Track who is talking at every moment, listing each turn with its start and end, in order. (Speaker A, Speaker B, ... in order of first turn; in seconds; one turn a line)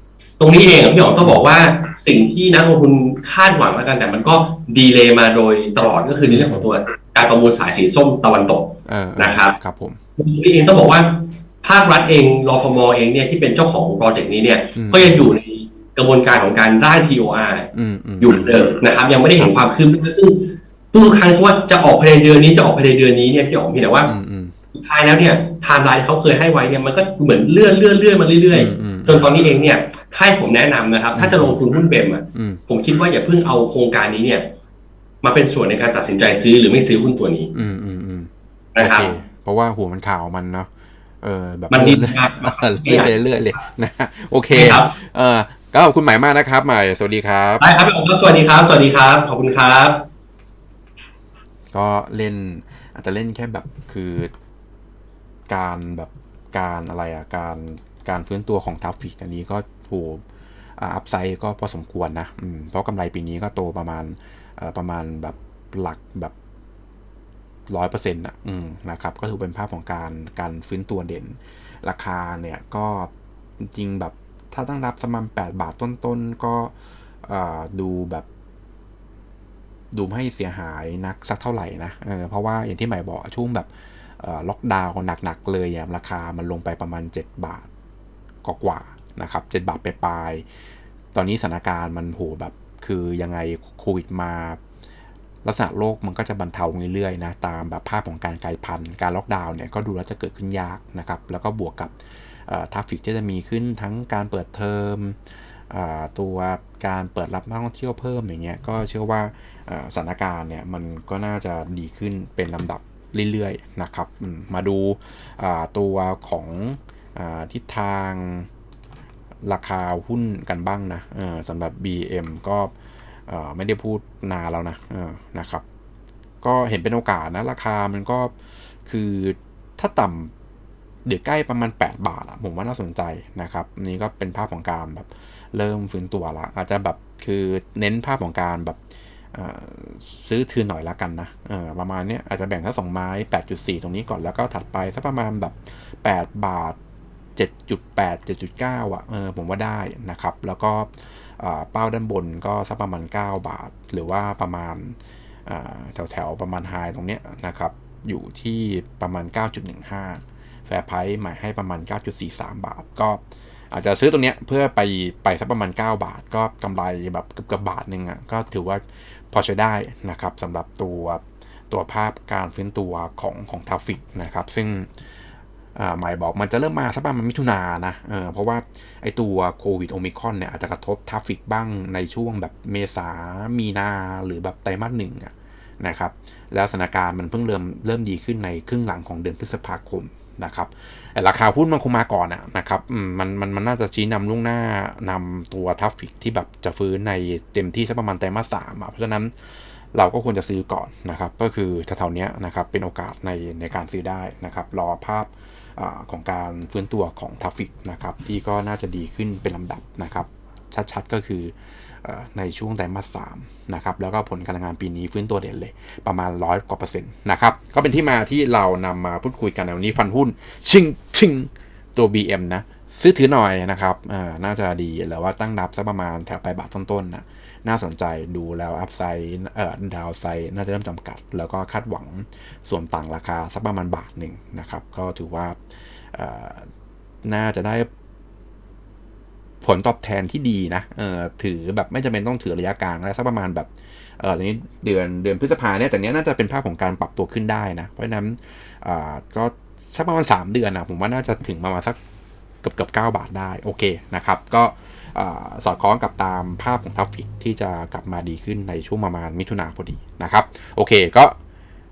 Speaker A: 0.4-9.5
Speaker B: 6.2-6.7
Speaker B: 8.9-10.0
Speaker A: 10.2-17.7
Speaker B: 14.8-15.3
Speaker B: 17.7-18.6
Speaker A: 18.2-24.1
Speaker B: 24.0-24.5
Speaker A: 24.7-34.4
Speaker B: 28.5-29.3
Speaker B: 31.1-31.6
Speaker B: 32.3-32.6
Speaker A: 35.2-37.5
Speaker B: 37.5-40.7
Speaker A: 38.8-39.1
Speaker B: 41.2-47.7
Speaker A: 41.7-43.1
Speaker A: 44.5-44.9
Speaker A: 47.6-50.0
Speaker B: 51.7-54.3
Speaker B: 55.5-60.2
Speaker B: 60.8-66.3
Speaker B: 67.7-73.1
Speaker B: 73.6-76.7
Speaker B: 77.2-78.2
Speaker B: 79.9-83.7
Speaker B: 84.2-87.7
Speaker B: 88.4-90.4
Speaker B: 91.1-94.6
Speaker B: 95.4-101.9
Speaker B: 102.5-105.2
Speaker B: 105.7-118.5
Speaker B: 119.4-122.7
Speaker B: 123.3-125.6
Speaker B: 126.4-128.3
Speaker B: 128.9-130.3
Speaker B: 131.1-138.8
Speaker B: 139.3-146.8
Speaker B: 147.4-174.9
Speaker B: 175.8-199.3
Speaker B: 199.9-235.6
Speaker B: 236.1-236.7
Speaker B: 237.2-237.9
Speaker B: 239.6-252.0
Speaker B: 252.6-261.4